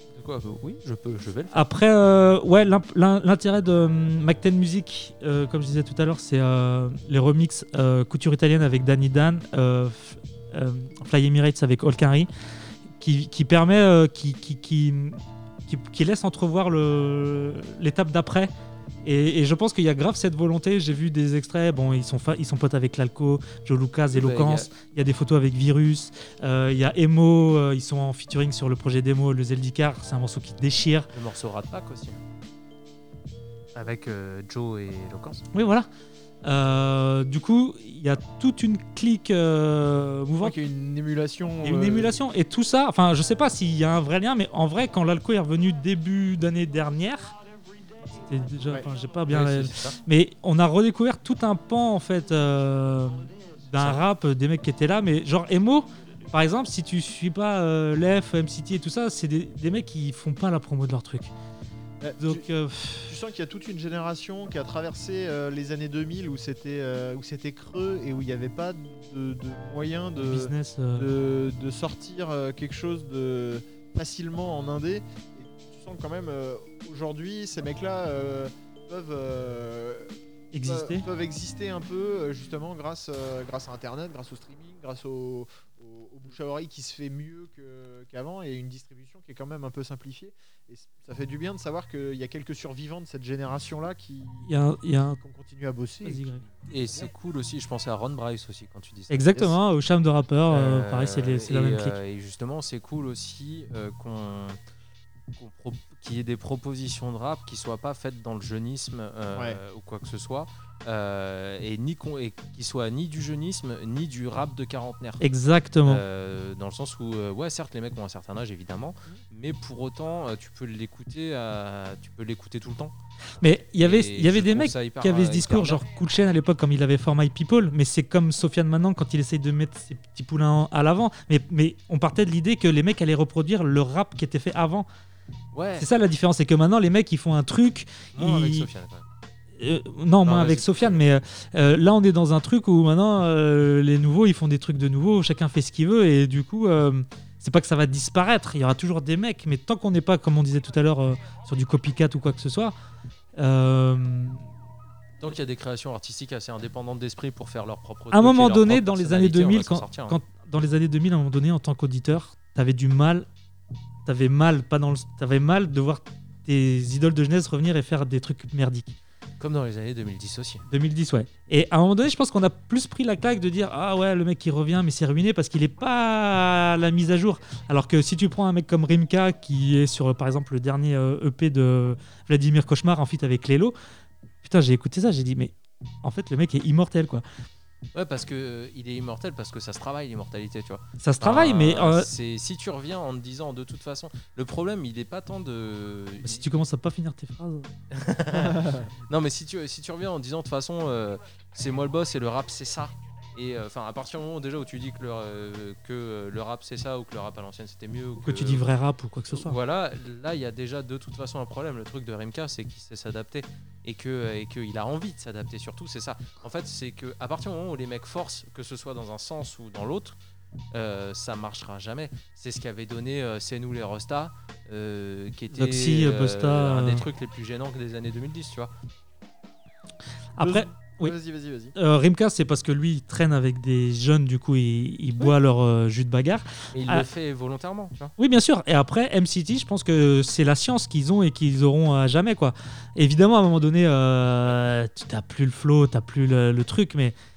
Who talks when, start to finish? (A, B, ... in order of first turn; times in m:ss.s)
0:00.1-0:01.6 A
0:01.5-0:12.3 B
0:13.0-0:18.5 B
0:19.0-0:31.1 B
0:24.1-0:24.7 A
0:31.1-0:32.2 A
0:33.8-0:35.4 A
0:35.5-0:35.9 B
0:36.4-0:40.6 B
0:40.4-0:42.2 C
0:41.6-0:47.4 B
0:48.2-1:01.3 B
0:49.3-0:50.0 A
0:53.8-0:54.0 A
1:02.0-1:02.4 C
1:02.2-1:03.1 B
1:03.0-1:20.1 C
1:10.2-1:11.1 B
1:20.5-1:21.0 B
1:20.6-1:34.5 C
1:34.5-1:35.2 B
1:35.2-1:37.1 C
1:36.0-1:36.4 B
1:36.7-1:39.3 A
1:39.1-1:42.0 B
1:40.5-1:44.6 A
1:45.4-1:55.2 A
1:49.3-1:49.6 C
1:55.2-1:56.0 B
1:55.8-2:02.9 A
2:03.4-2:14.9 B
2:03.7-2:05.8 A
2:15.5-2:15.9 A
2:15.8-2:18.7 B
2:18.1-2:19.0 A
2:19.6-2:32.7 B
2:20.2-2:21.0 A
2:33.4-2:34.4 B
2:35.2-2:40.2 A
2:38.1-2:43.3 B
2:44.1-2:49.0 B
2:49.4-2:50.6 A
2:50.7-3:03.8 B
3:04.4-3:07.2 B
3:07.9-3:16.5 A
3:11.0-3:12.1 B
3:16.2-3:17.7 B
3:17.9-3:28.6 A
3:18.6-3:18.9 C
3:28.2-3:29.6 B
3:29.3-3:40.2 A
3:40.7-3:48.7 A
3:45.5-3:47.0 B
3:50.4-3:51.2 B
3:50.4-3:51.7 C
3:51.8-3:57.1 B
3:56.7-3:58.1 A
3:58.2-4:07.2 B